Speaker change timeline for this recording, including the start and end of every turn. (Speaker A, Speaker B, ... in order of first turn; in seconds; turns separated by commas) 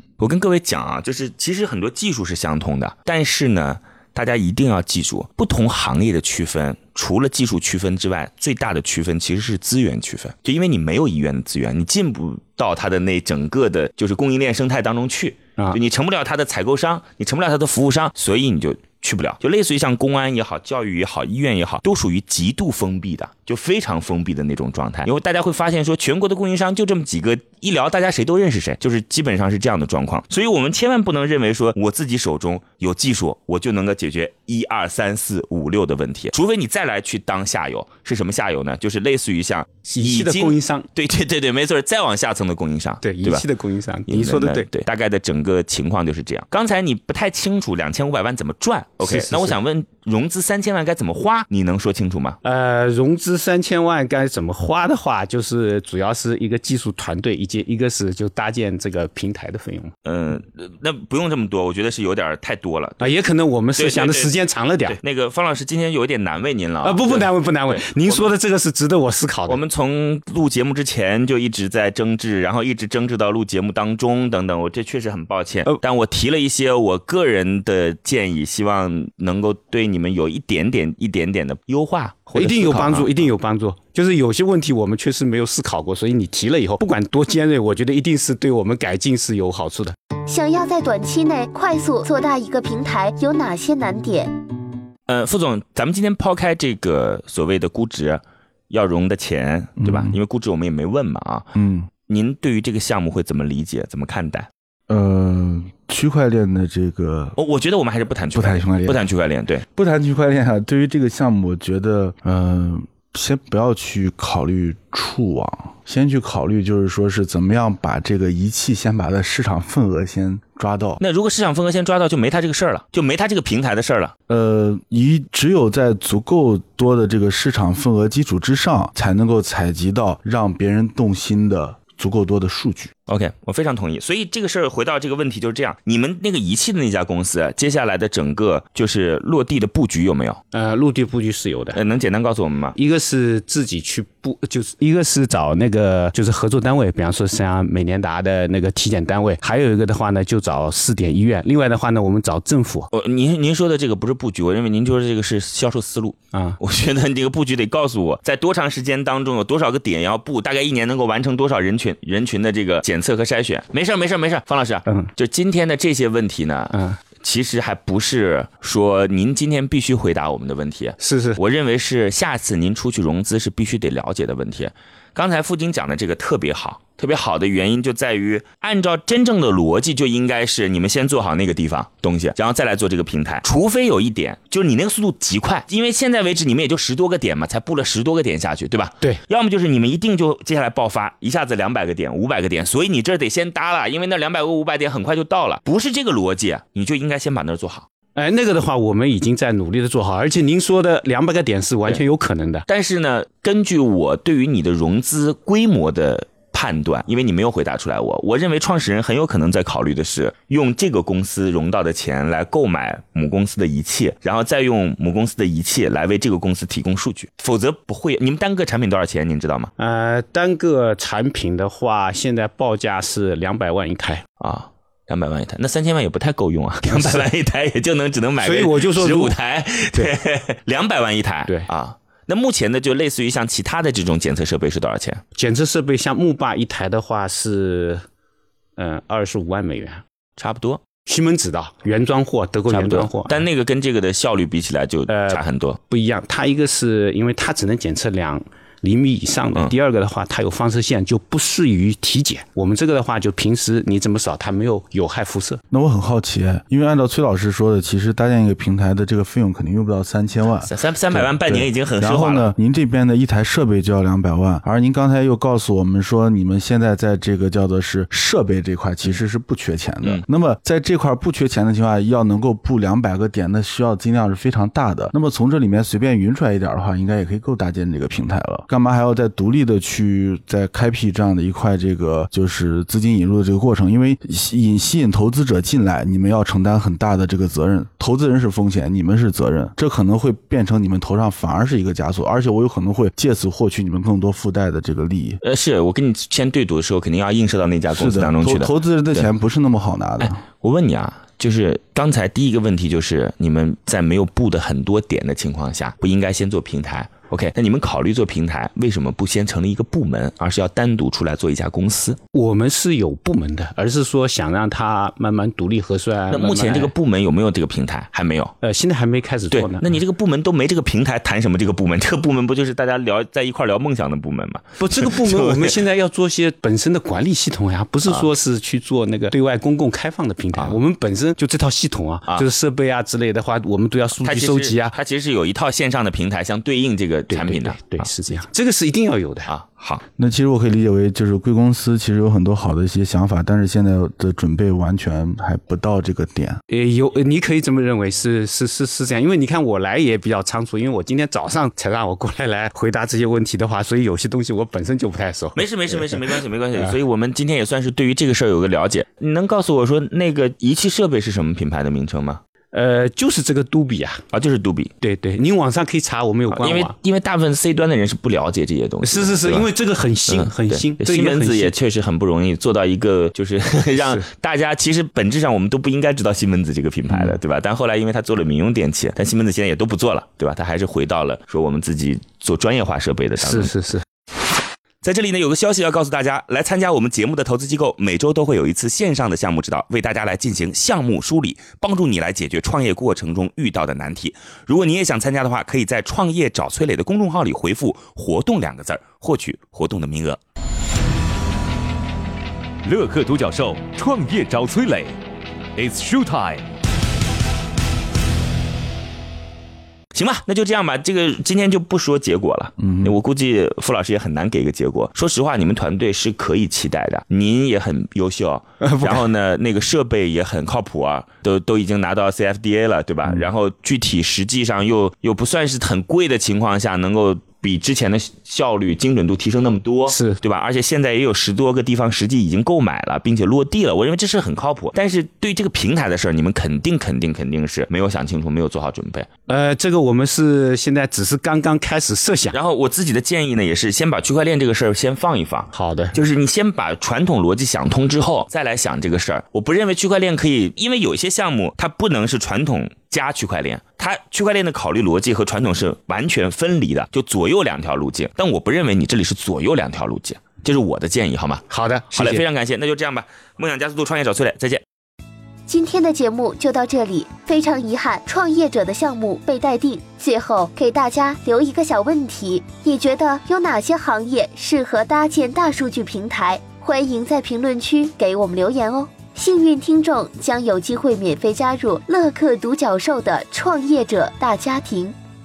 Speaker A: 0.2-43.5, Speaker B: 39.9-40.9, Speaker B: 43.0-44.7, Speaker A: 44.1-52.4, Speaker B: 49.0-49.6, Speaker B: 52.4-59.9, Speaker A: 60.0-63.1, Speaker B: 63.0-65.0, Speaker A: 63.8-64.3, Speaker A: 64.9-68.3, Speaker B: 66.8-69.6, Speaker A: 69.5-83.3, Speaker B: 82.3-90.0, Speaker C: 90.3-94.3, Speaker A: 95.1-101.5, Speaker D: 99.8-100.2, Speaker D: 101.5-101.9, Speaker A: 102.1-104.5, Speaker D: 104.9-107.4, Speaker A: 107.4-109.7, Speaker D: 108.3-109.0, Speaker D: 109.8-121.0, Speaker A: 121.0-124.1, Speaker D: 124.3-132.9, Speaker A: 133.1-140.4, Speaker B: 140.5-141.8, Speaker A: 141.8-142.8, Speaker B: 142.8-152.9, Speaker A: 152.9-197.9, Speaker B: 156.3-156.6, Speaker B: 164.9-165.1, Speaker B: 166.7-167.0, Speaker B: 171.0-171.4, Speaker B: 198.2-202.7, Speaker A: 202.7-219.7, Speaker B: 219.8-224.2, Speaker A: 224.4-235.2, Speaker B: 226.8-227.3, Speaker B: 228.4-229.3, Speaker B: 235.3-238.0, Speaker B: 238.8-240.0, Speaker A: 240.4-240.8, Speaker B: 241.1-243.4, Speaker A: 242.7-245.8, Speaker B: 245.1-255.6, Speaker D: 255.7-295.4, Speaker A: 260.6-262.5, Speaker A: 295.4-299.3, Speaker D: 297.9-300.4, Speaker A: 300.2-312.2, Speaker B: 312.3-316.9, Speaker A: 316.3-318.5, Speaker B: 318.6-320.0, Speaker A: 319.5-325.8, Speaker B: 324.8-334.9, Speaker A: 334.2-338.1, Speaker B: 337.3-339.5, Speaker A: 339.5-340.0, Speaker D: 340.2-346.6, Speaker B: 346.7-356.9, Speaker A: 355.6-362.4, Speaker B: 362.7-364.2, Speaker A: 364.3-364.9, Speaker B: 365.0-366.9, Speaker A: 366.5-369.7, Speaker B: 369.0-371.8, Speaker A: 370.3-383.7, Speaker B: 374.0-374.2, Speaker B: 377.1-377.4, Speaker B: 383.4-384.0, Speaker A: 385.0-400.4, Speaker E: 402.8-405.1, Speaker E: 405.8-406.6, Speaker A: 410.1-439.3, Speaker D: 412.8-413.1, Speaker B: 418.8-419.2, Speaker B: 430.1-430.4, Speaker B: 439.5-442.6, Speaker A: 442.5-464.8, Speaker B: 445.7-446.2, Speaker B: 461.7-462.4, Speaker C: 465.7-485.2